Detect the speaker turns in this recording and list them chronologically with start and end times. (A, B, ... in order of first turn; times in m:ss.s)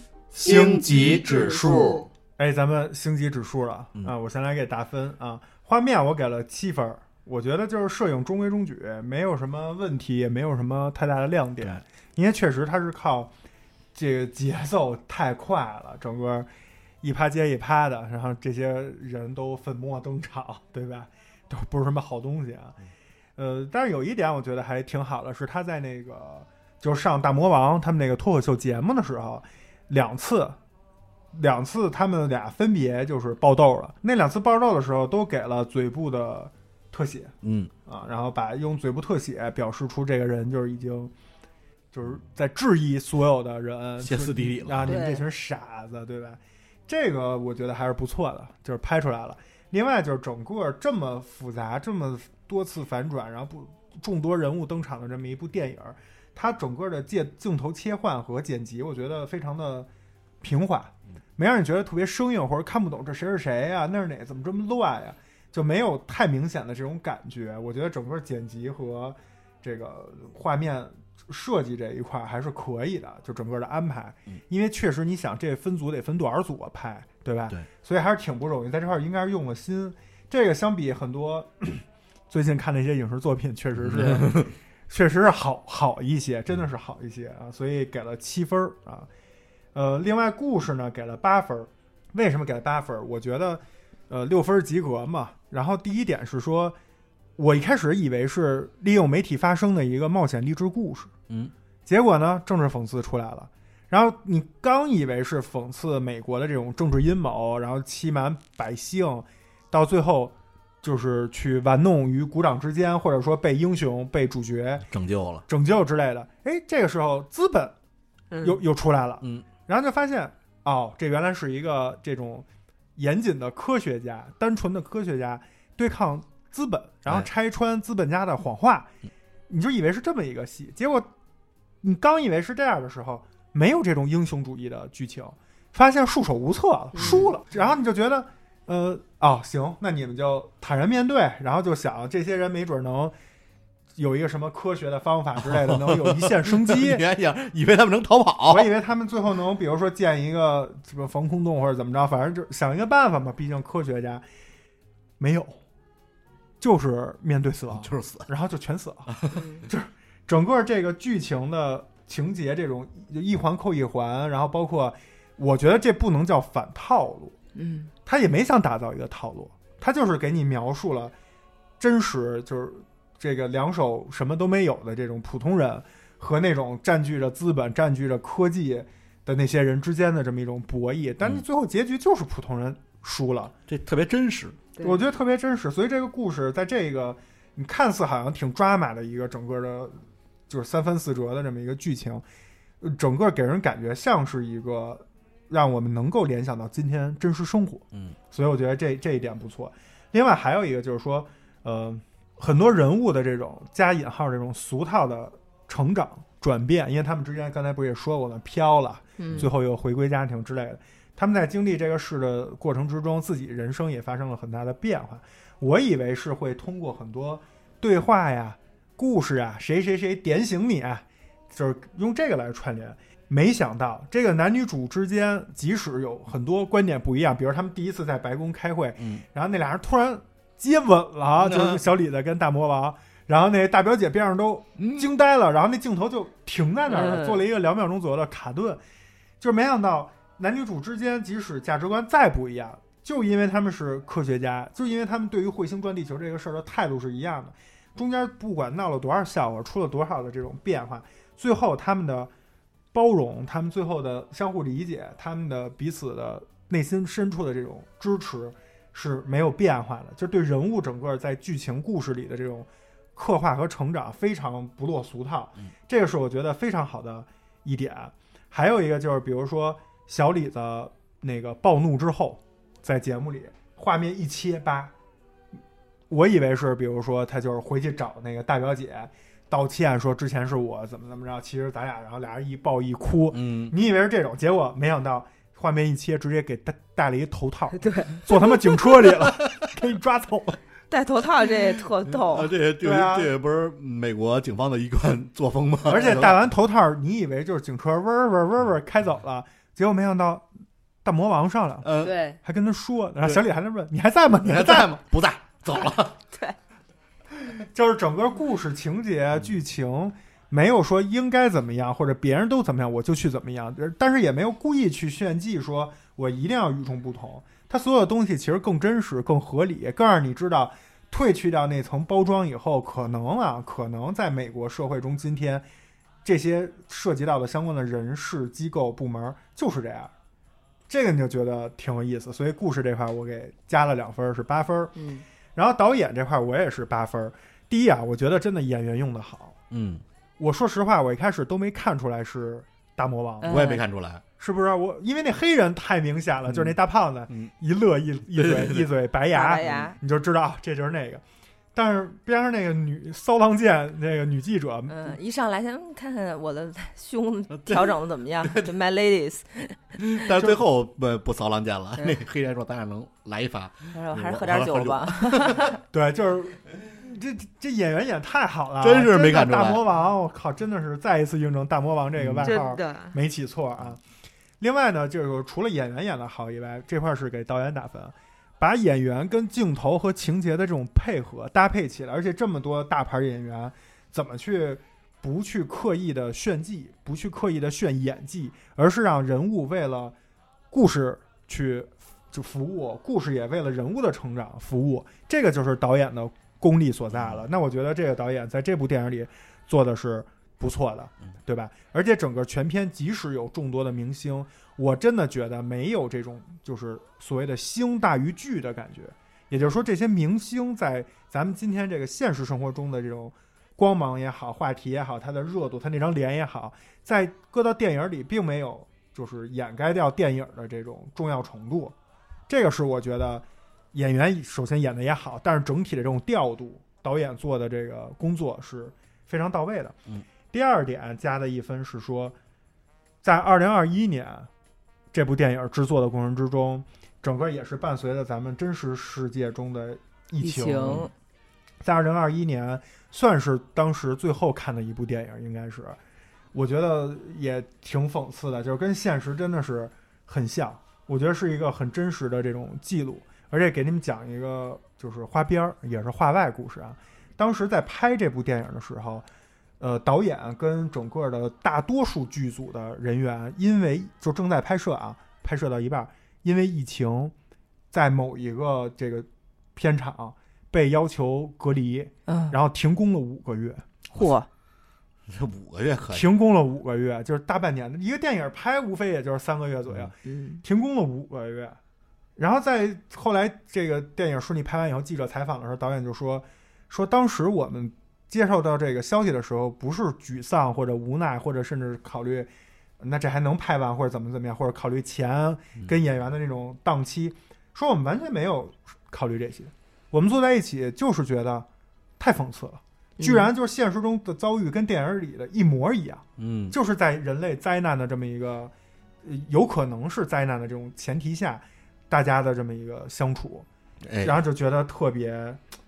0:00.3-0:13.3 A
0:00.4-0:02.0 B
0:01.7-0:02.0 C
0:14.0-0:16.5 A
0:17.0-0:22.8 A
0:23.4-0:30.6 A
0:31.3-0:37.4 A
0:37.4-0:37.7 B
0:37.9-0:41.1 A
0:41.9-0:59.9 A
0:44.0-0:45.0 B
0:44.9-0:45.2 C
1:00.4-1:29.1 A
1:23.8-1:24.5 B
1:29.7-1:36.8 A
1:37.4-1:41.1 A
1:41.9-1:54.9 A
1:54.9-1:55.5 B
1:55.5-1:57.7 A
1:58.3-1:58.6 C
1:58.4-2:02.5 A
2:03.0-2:08.9 A
2:09.5-2:11.1 A
2:11.8-2:23.2 A
2:17.0-2:17.3 B
2:17.0-2:17.3 C
2:24.0-2:27.0 A
2:25.4-2:28.7 B
2:28.5-2:34.2 A
2:35.2-2:35.6 A
2:36.6-2:39.2 A
2:37.7-2:38.3 B
2:39.1-2:39.4 B
2:39.4-2:39.6 C
2:39.7-2:47.4 A
2:47.6-2:47.9 C
2:48.1-2:51.1 A
2:51.8-3:03.5 A
3:03.7-3:04.6 B
3:04.8-3:05.0 C
3:04.8-3:10.0 A
3:10.5-3:12.2 A
3:12.8-3:58.8 A
3:29.2-3:29.5 C
3:49.0-3:49.2 B
3:51.4-3:51.8 B
3:54.8-3:55.1 B
3:56.9-3:57.4 C
3:59.4-4:12.3 A
4:12.9-4:34.9 A
4:36.1-4:50.6 A
4:43.3-4:43.8 B
4:47.7-4:48.8 C
4:50.9-4:52.5 C
4:52.1-4:56.5 B
4:52.8-4:53.3 A
4:55.9-5:00.5 A
5:01.0-5:01.9 A
5:01.8-5:02.2 B
5:02.0-5:02.4 C
5:02.4-5:04.9 A
5:04.4-5:06.2 B
5:07.5-5:25.7 A
5:09.3-5:09.6 B
5:26.2-5:30.1 A
5:30.9-5:35.0 A
5:35.0-5:35.2 C
5:35.6-5:39.6 A
5:39.7-5:40.0 B
5:40.4-5:43.6 A
5:43.4-5:43.8 C
5:43.5-5:44.2 B
5:44.4-5:51.2 A
5:46.5-5:46.8 B
5:48.4-5:48.9 B
5:49.3-5:50.0 C
5:51.8-5:55.1 A
5:54.9-5:59.8 C
5:57.5-5:58.7 B
6:00.0-6:05.7 B
6:03.9-6:05.8 C
6:05.9-6:14.0 A
6:08.8-6:09.8 B
6:12.2-6:12.5 B
6:12.4-6:13.2 C
6:14.6-6:30.2 A
6:30.7-7:02.0 A
6:37.1-6:37.5 B
7:02.5-7:10.0 A
7:10.5-7:12.4 A
7:13.2-7:14.5 A
7:15.1-7:21.1 A
7:20.4-7:21.1 C
7:21.8-7:26.0 A
7:26.5-7:39.3 A
7:39.8-7:47.3 A
7:47.9-7:53.8 A
7:52.3-7:52.6 C
7:54.1-7:54.5 C
7:55.3-7:56.3 B
7:56.1-8:01.8 A
8:00.2-8:00.6 C
8:02.4-8:21.7 A
8:22.2-8:33.7 A
8:23.2-8:23.5 C
8:26.4-8:26.8 B
8:34.0-8:34.4 B
8:34.2-8:35.6 A